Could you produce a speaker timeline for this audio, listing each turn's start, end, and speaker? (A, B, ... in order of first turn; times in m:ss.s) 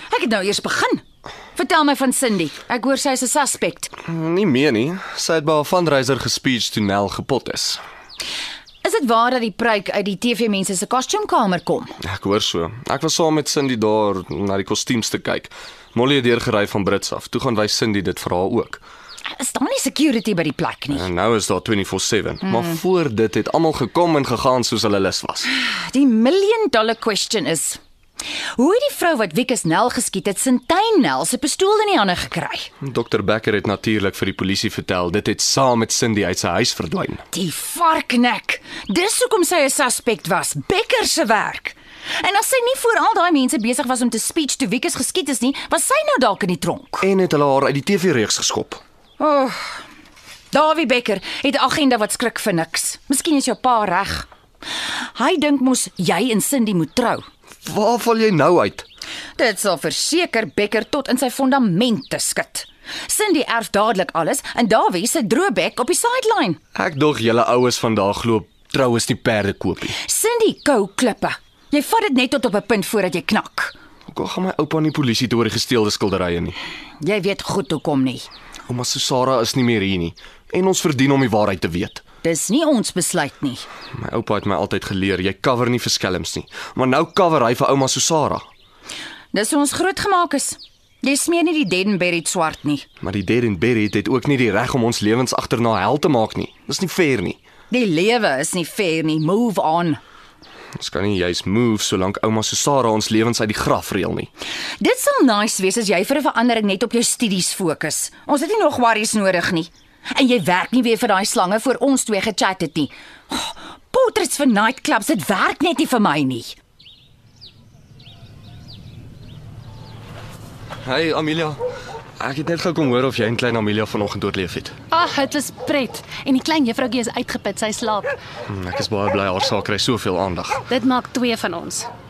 0:00.1-0:01.0 A
0:01.5-0:03.9 A
0:04.1-0:07.8 B
0:08.8-0:11.9 A
0:12.0-0:18.8 B
0:19.3-0:21.1 A
0:20.9-0:25.5 B
0:25.4-0:27.8 A
0:28.5-0:32.7 A
0:32.8-0:37.2 B
0:37.3-0:47.0 A
0:47.0-0:48.8 B
0:49.2-0:49.8 A
0:50.5-0:57.2 A
0:57.6-0:58.8 B
0:59.4-1:06.6 A
1:06.7-1:09.9 B
1:10.0-1:13.7 A
1:14.1-1:16.6 B
1:17.0-1:18.3 A
1:18.7-1:22.0 B
1:22.2-1:23.6 A
1:23.9-1:28.4 B
1:29.3-1:32.8 A
1:33.0-1:37.4 B
1:37.7-1:40.0 A
1:40.8-1:44.3 B
1:44.8-1:56.6 A
2:00.8-2:01.6 B
2:02.2-2:04.7 B
2:04.9-2:08.1 C
2:08.5-2:10.6 B
2:10.7-2:11.9 C